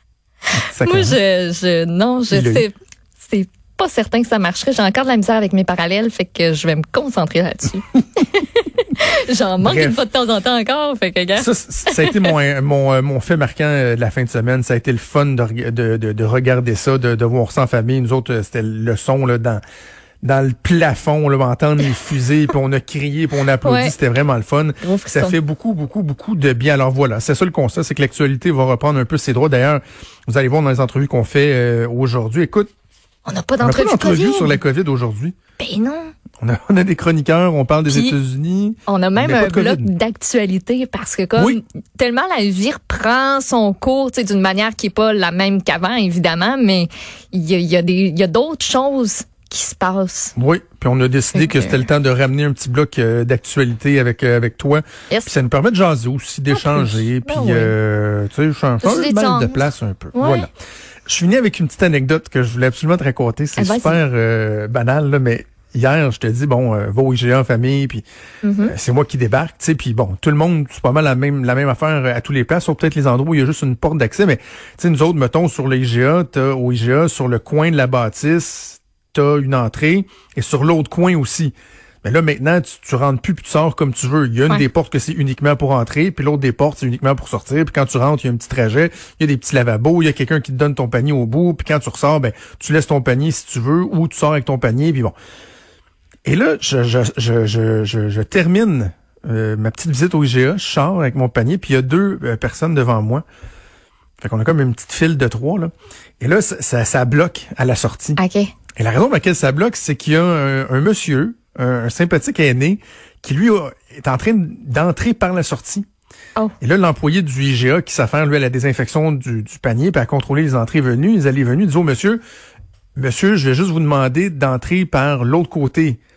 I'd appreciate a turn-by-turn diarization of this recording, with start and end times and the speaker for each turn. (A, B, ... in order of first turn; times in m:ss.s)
0:00.7-0:01.2 A
0:00.8-0:12.3 B
0:02.3-0:02.6 A
0:09.6-0:10.0 A
0:11.4-0:19.6 A
0:20.2-0:32.7 A
0:23.6-0:23.9 B
0:24.8-0:25.4 B
0:33.2-0:34.6 B
0:33.6-0:35.3 A
0:35.6-0:36.1 B
0:36.4-0:39.9 A
0:37.9-0:38.2 B
0:38.9-0:50.3 B
0:50.4-1:00.5 A
0:51.3-0:51.8 B
0:56.5-0:57.7 B
0:58.8-0:59.6 B
1:00.2-1:00.5 B
1:01.1-1:08.0 A
1:03.6-1:04.0 B
1:08.4-1:08.7 B
1:08.6-1:35.2 A
1:36.2-1:43.2 A
1:44.2-1:48.2 A
1:48.2-1:48.5 B
1:48.8-1:55.8 A
1:56.6-2:02.2 A
2:03.0-2:06.0 A